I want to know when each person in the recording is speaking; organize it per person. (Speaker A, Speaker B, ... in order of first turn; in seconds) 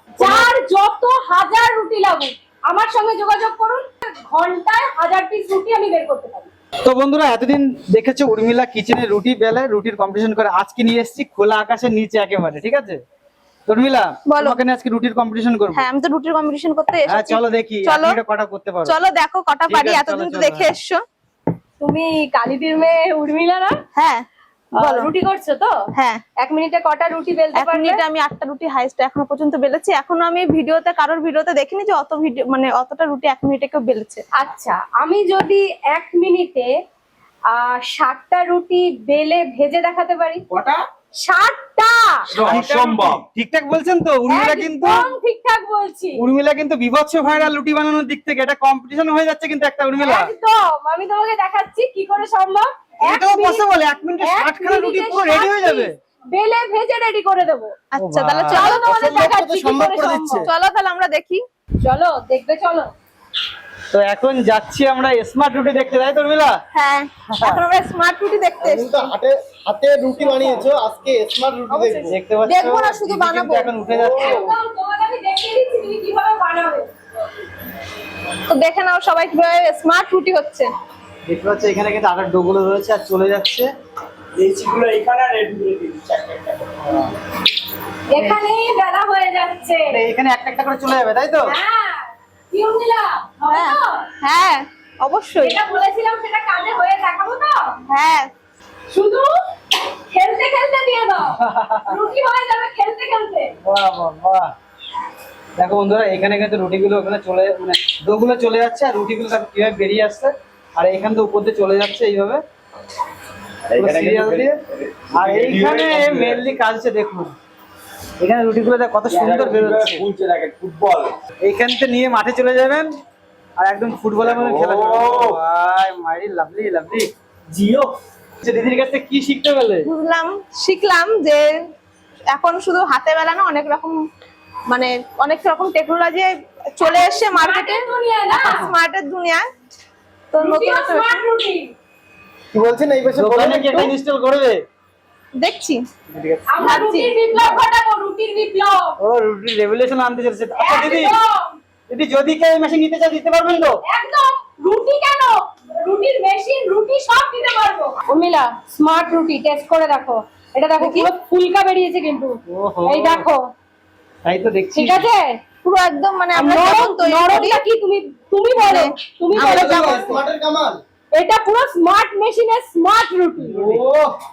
Speaker A: 0.2-6.5, 21.8-23.8, 24.8-25.7, 26.4-28.0, 34.3-36.7, 37.5-40.4, 41.2-42.3, 44.3-46.2, 50.0-53.6, 54.2-57.8, 58.5-60.5, 61.8-62.9, 74.1-76.9, 88.1-90.0, 91.5-94.0, 95.4-97.7, 98.9-103.5, 136.8-138.7, 140.4-141.7, 146.5-148.9, 150.6-151.4, 153.8-163.5, 164.7-165.4, 166.3-170.1, 171.1-173.7
Speaker B: 0.2-0.5, 14.3-14.6, 15.7-18.2, 18.8-21.0, 23.9-24.2, 24.8-25.1, 25.9-26.2, 27.6-34.2, 57.9-59.2, 60.5-61.4, 66.7-69.1, 71.7-73.8, 78.5-80.7, 93.5-95.6, 97.9-98.3, 129.8-131.6, 132.3-134.0, 134.7-139.4, 140.3-141.2, 145.4-145.8, 146.6-147.4, 160.8-161.1, 165.6-167.6, 168.6-170.2
Speaker C: 6.8-13.0, 13.7-15.9, 17.1-19.0, 19.7-20.7, 42.4-45.0, 46.2-50.3, 53.0-56.0, 58.0-58.8, 63.9-66.6, 67.3-67.6, 72.1-74.5, 81.2-83.7, 86.8-87.1, 89.9-91.5, 101.4-101.9, 103.6-104.5, 105.6-112.4, 113.8-114.6, 115.1-117.3, 118.2-120.0, 121.4-122.9, 123.6-127.1, 128.4-129.9, 143.1-144.6, 146.1-146.9, 149.0-151.2, 151.9-153.8, 162.5-163.2, 164.2-165.1, 173.5-173.8
Speaker D: 40.5-40.8, 42.3-43.2, 84.3-86.9, 113.7-116.4, 119.1-121.1, 124.2-125.4, 127.5-127.9
Speaker E: 58.7-60.5, 68.6-72.1, 73.9-74.4, 142.5-143.9, 169.3-170.8, 173.5-174.1